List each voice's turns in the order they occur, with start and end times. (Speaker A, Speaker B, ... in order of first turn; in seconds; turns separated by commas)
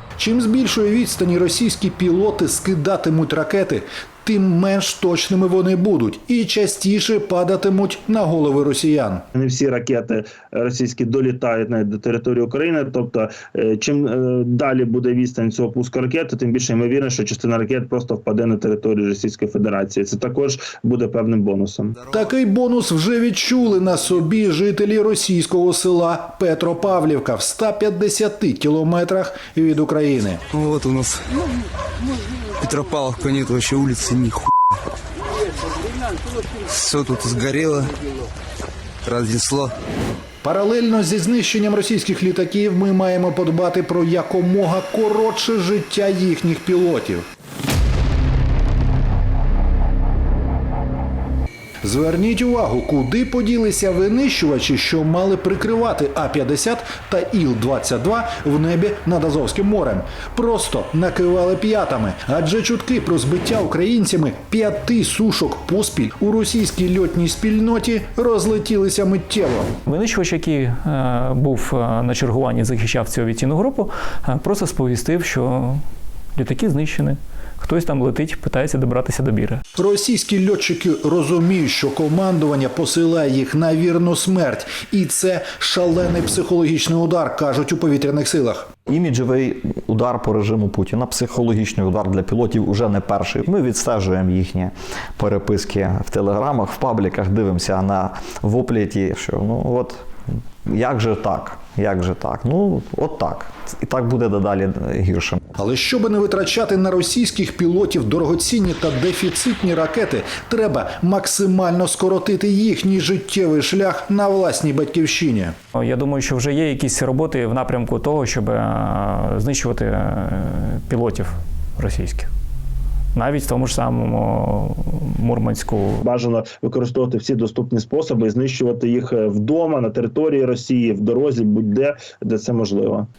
Speaker A: 0.2-9.2, Speaker B: 9.3-21.9, Speaker A: 22.1-30.4, Speaker C: 30.6-31.1, Speaker C: 32.7-34.3, Speaker C: 37.0-37.9, Speaker C: 39.1-39.7, Speaker A: 40.4-47.3, Speaker A: 51.8-69.7, Speaker D: 69.9-75.8, Speaker D: 76.3-79.6, Speaker A: 79.8-88.7, Speaker E: 88.9-100.1, Speaker E: 100.7-105.4, Speaker A: 105.6-115.5, Speaker D: 115.7-122.3, Speaker D: 123.1-126.0, Speaker B: 126.0-133.1